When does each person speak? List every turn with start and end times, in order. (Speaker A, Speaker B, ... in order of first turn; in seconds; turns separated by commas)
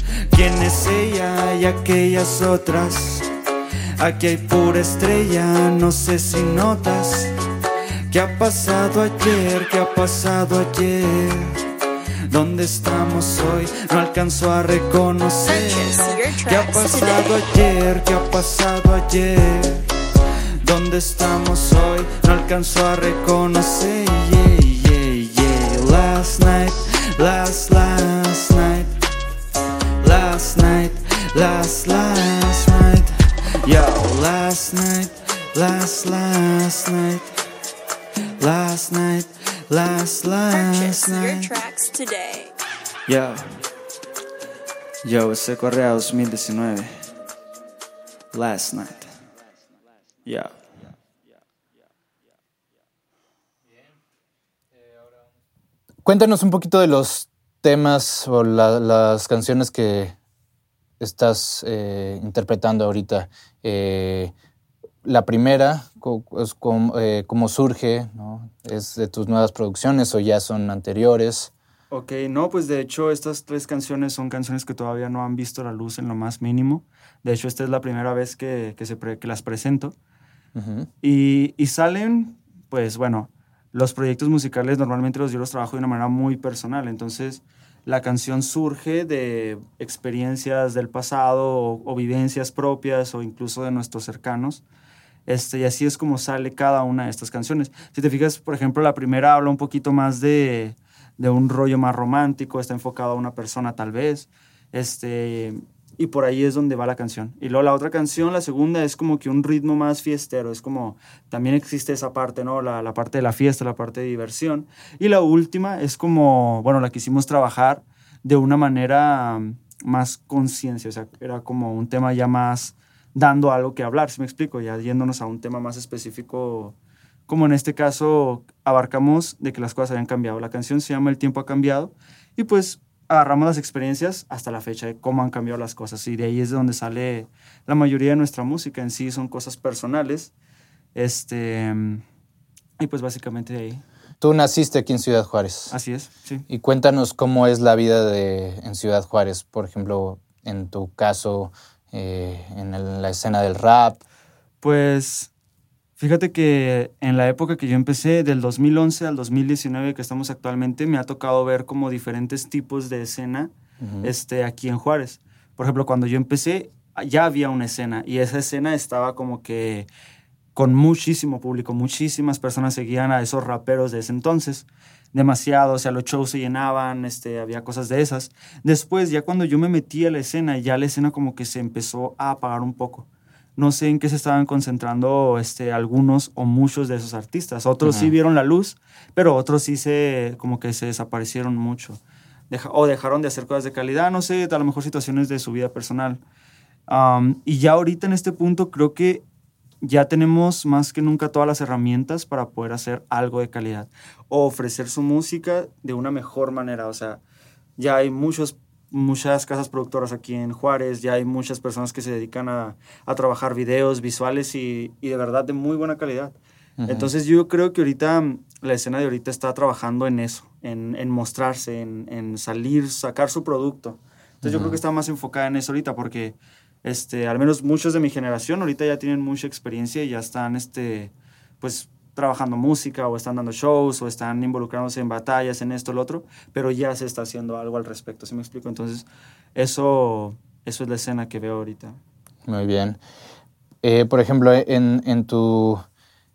Speaker A: 0.3-3.3, Speaker A: 4.0-7.3, Speaker A: 8.1-11.6, Speaker A: 12.3-19.9, Speaker B: 15.5-17.4, Speaker A: 20.6-29.0, Speaker A: 30.0-37.4, Speaker A: 38.4-41.5, Speaker B: 40.5-42.5, Speaker A: 43.1-43.5, Speaker A: 45.0-46.9, Speaker A: 48.3-49.1, Speaker A: 50.3-50.5, Speaker C: 56.0-60.2, Speaker C: 61.0-64.3, Speaker C: 65.0-71.5, Speaker A: 71.9-80.0, Speaker C: 80.5-80.9, Speaker A: 81.0-94.6, Speaker A: 95.3-126.8, Speaker A: 127.3-140.3, Speaker A: 140.9-142.0, Speaker A: 142.8-143.8, Speaker C: 144.2-145.7, Speaker A: 145.7-146.4, Speaker C: 146.5-154.0, Speaker A: 154.6-155.3, Speaker A: 156.0-169.9, Speaker C: 163.8-164.1, Speaker A: 170.6-196.2, Speaker C: 187.8-188.1, Speaker A: 196.9-199.2, Speaker A: 199.8-207.2, Speaker A: 207.8-216.3, Speaker C: 216.8-217.1, Speaker A: 216.9-242.0, Speaker C: 224.4-224.8, Speaker C: 242.5-243.0, Speaker C: 243.8-245.8